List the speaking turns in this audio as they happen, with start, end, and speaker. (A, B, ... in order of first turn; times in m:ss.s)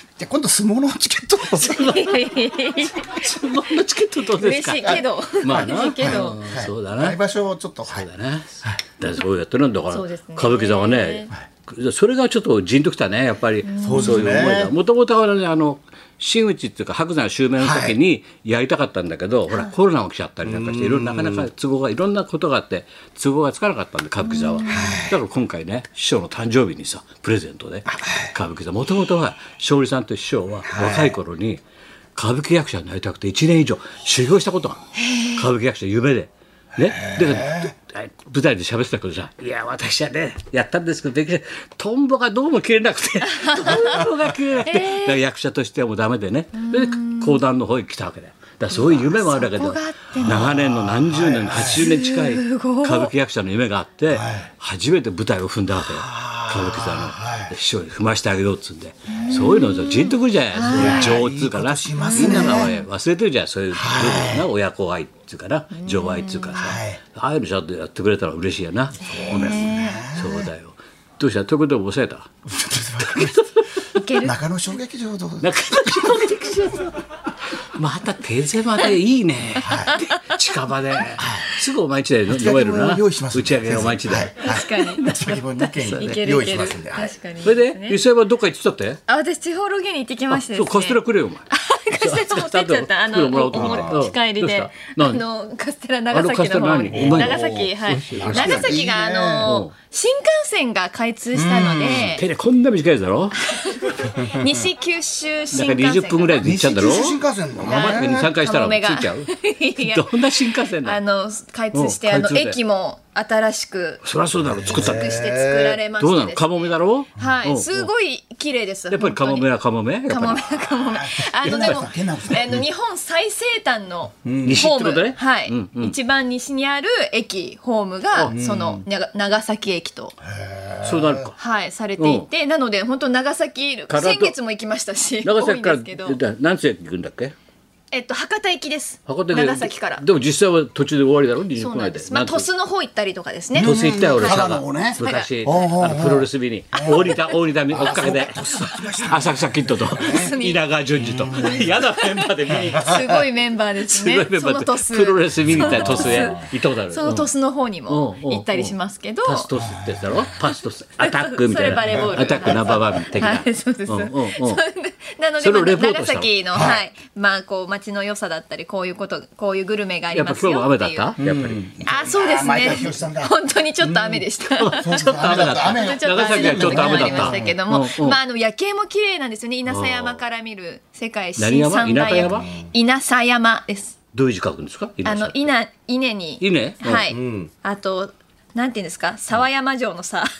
0:00.2-0:02.1 A
0:01.5-0:03.5 B
0:02.8-0:07.2 C
0:04.3-0:06.5 B
0:04.8-0:08.1 A
0:07.9-0:31.6 C
0:09.9-0:11.3 B
0:13.6-0:14.4 B
0:13.8-0:14.7 A
0:17.6-0:18.0 A
0:20.4-0:21.5 A
0:24.2-0:25.0 B
0:24.7-0:25.1 A
0:27.8-0:28.3 A
0:30.6-0:31.2 A
0:32.1-1:12.3 C
0:35.0-0:35.4 B
0:36.8-0:37.7 A
0:43.3-0:44.0 B
0:44.6-0:45.2 B
0:46.5-0:47.4 B
0:48.7-0:50.5 B
0:50.2-0:51.8 A
0:51.7-0:53.1 B
0:54.1-0:54.5 A
0:55.9-0:57.5 A
0:59.1-1:01.2 B
1:00.7-1:02.7 A
1:01.9-1:02.8 B
1:03.7-1:04.5 A
1:05.7-1:06.6 B
1:06.5-1:07.0 A
1:09.0-1:10.5 A
1:09.0-1:10.0 B
1:12.5-1:13.4 A
1:13.0-1:13.6 C
1:13.9-1:14.3 B
1:14.2-1:16.4 A
1:15.4-1:16.9 C
1:17.6-1:25.3 C
1:19.6-1:19.9 A
1:21.2-1:21.5 A
1:22.3-1:27.1 A
1:24.3-1:28.0 B
1:27.4-1:29.0 C
1:29.1-1:42.2 B
1:30.3-1:35.2 C
1:33.5-1:34.0 A
1:36.1-1:38.8 C
1:36.9-1:39.6 A
1:39.4-1:39.7 C
1:41.3-1:42.2 A
1:42.0-1:43.4 C
1:43.4-1:46.5 B
1:44.2-1:44.5 A
1:45.5-1:51.0 C
1:46.4-1:48.3 A
1:47.6-1:54.0 B
1:51.7-1:52.6 C
1:54.0-1:55.2 C
1:54.5-1:55.8 A
1:54.7-1:59.5 B
1:56.0-1:57.9 C
1:58.9-2:00.5 C
2:00.0-2:10.1 B
2:00.6-2:02.7 A
2:01.5-2:01.8 C
2:04.2-2:04.7 A
2:04.4-2:05.9 C
2:08.1-2:08.4 C
2:08.3-2:08.8 A
2:10.2-2:11.3 A
2:10.8-2:11.4 C
2:11.4-2:16.2 B
2:12.0-2:12.3 C
2:13.9-2:14.3 C
2:15.2-2:17.3 C
2:17.9-2:20.0 B
2:19.0-2:22.5 C
2:21.6-2:25.7 B
2:23.5-2:27.2 A
2:23.6-2:33.2 C
2:26.8-2:27.3 B
2:27.7-2:30.3 A
2:29.9-2:30.6 B
2:31.0-2:31.8 A
2:31.2-2:39.5 B
2:32.5-2:33.2 A
2:33.9-2:37.3 C
2:35.6-2:36.2 A
2:37.9-2:44.6 C
2:39.6-2:40.2 A
2:41.0-2:51.1 B
2:41.9-2:42.8 A
2:45.4-2:46.3 C
2:46.5-2:46.8 A
2:50.1-2:52.0 C
2:51.2-2:57.6 A
2:51.8-3:04.0 B
2:54.6-2:58.2 C
2:59.7-3:00.2 C
3:01.4-3:02.5 C
3:02.2-3:02.7 A
3:04.1-3:05.5 C
3:05.0-3:10.3 B
3:06.4-3:07.1 C
3:07.1-3:07.5 A